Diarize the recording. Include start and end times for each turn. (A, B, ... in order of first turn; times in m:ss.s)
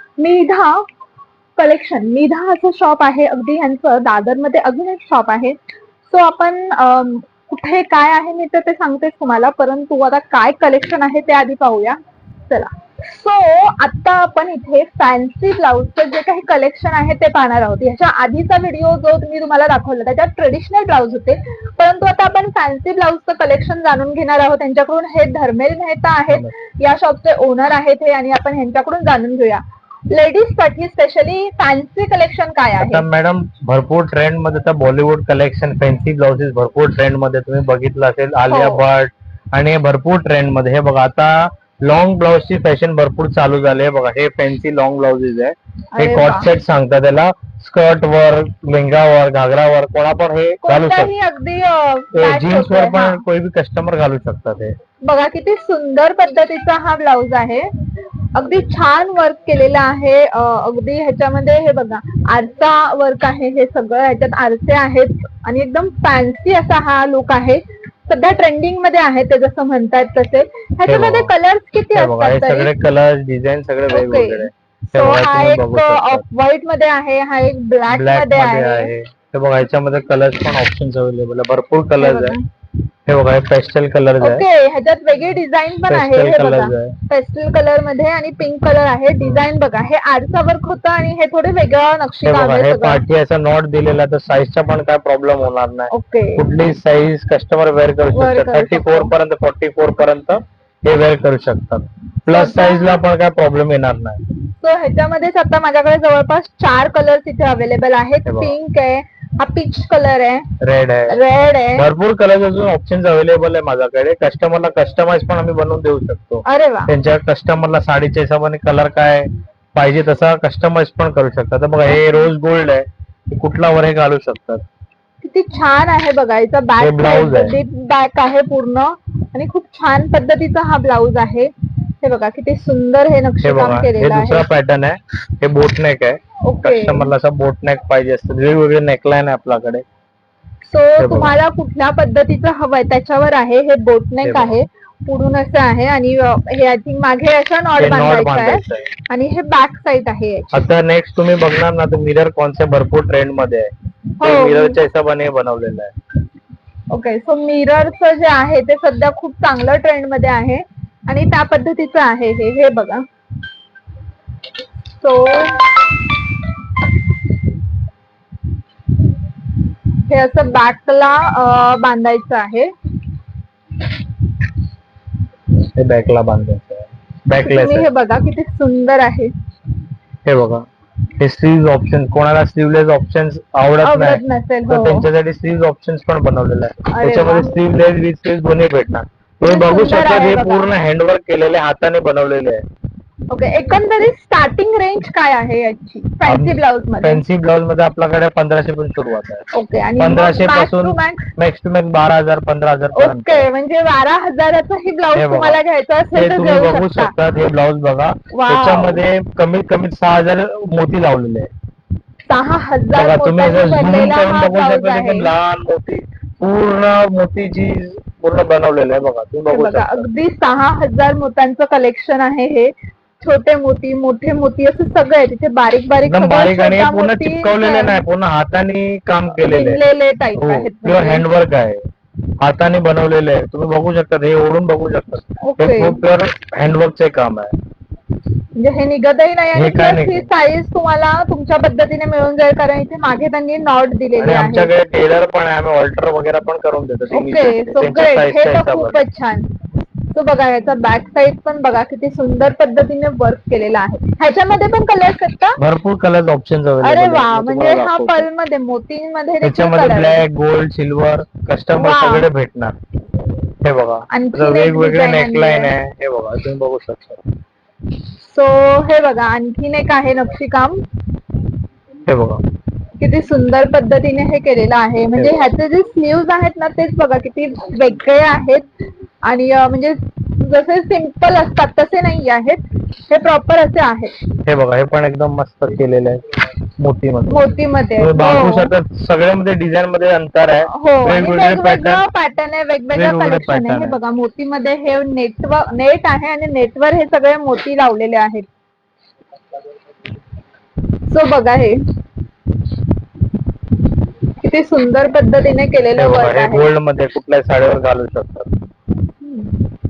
0:00.2-0:00.8 A
0:01.6-0:05.6 A
0:06.1-0:33.0 A
0:32.8-0:51.1 B
0:38.5-0:38.8 A
0:46.0-0:46.5 A
0:50.6-0:53.2 A
0:52.1-0:54.8 B
0:55.1-0:57.7 A
0:58.4-1:12.7 A
1:10.9-1:11.3 B
1:12.0-1:16.2 B
1:13.9-1:18.9 A
1:17.9-1:22.4 B
1:22.0-1:22.4 A
1:23.1-1:24.4 B
1:24.2-1:33.0 A
1:25.9-1:27.0 B
1:32.2-1:44.2 B
1:35.9-1:36.5 A
1:38.1-1:39.1 A
1:42.3-1:43.0 A
1:44.6-1:50.5 A
1:48.2-1:48.5 B
1:50.6-1:51.2 B
1:51.1-1:51.9 A
1:51.8-2:04.6 B
1:56.5-1:56.9 A
2:01.9-2:02.3 A
2:05.2-2:14.5 A
2:06.8-2:07.6 B
2:13.4-2:19.8 B
2:16.4-2:17.1 A
2:20.7-2:30.6 A
2:21.0-2:21.3 B
2:24.2-2:24.6 B
2:27.8-2:28.9 B
2:30.5-2:33.7 B
2:34.2-2:34.8 A
2:34.2-2:35.9 B
2:36.9-2:43.0 A
2:45.0-2:46.0 A
2:50.1-2:52.7 A
2:55.8-2:57.9 B
2:57.4-2:59.3 A
3:00.2-3:00.6 B
3:01.2-3:12.6 B
3:03.8-3:05.1 A
3:06.9-3:07.6 A
3:09.4-3:10.7 A
3:13.3-3:17.2 A
3:16.3-3:19.5 B
3:19.5-3:21.3 A
3:20.0-3:23.5 B
3:22.9-3:27.1 A
3:25.1-3:25.6 B
3:26.1-3:31.5 B
3:28.3-3:29.0 A
3:32.3-3:35.3 A
3:33.0-3:40.1 B
3:39.5-3:48.0 A
3:46.0-3:49.8 B
3:49.4-3:51.2 A
3:50.4-3:51.8 B
3:52.4-3:57.5 B
3:55.4-3:56.0 A
3:58.6-4:04.7 A
3:59.6-4:00.3 B
4:04.2-4:09.0 B
4:07.1-4:09.5 A
4:10.1-4:15.6 A
4:15.6-4:18.3 B
4:16.8-4:20.2 A
4:19.4-4:22.8 B
4:21.8-4:22.3 A
4:23.6-4:27.2 B
4:24.1-4:25.7 A
4:28.2-4:30.8 A
4:32.1-4:32.4 B
4:33.0-4:38.6 A
4:39.3-4:44.1 A
4:44.4-4:46.2 B
4:46.8-4:52.0 B
4:47.3-4:48.7 A
4:50.7-4:58.5 A
4:52.9-4:54.0 B
5:01.1-5:01.8 A
5:04.4-5:06.7 A
5:06.0-5:08.5 B
5:09.2-5:09.6 A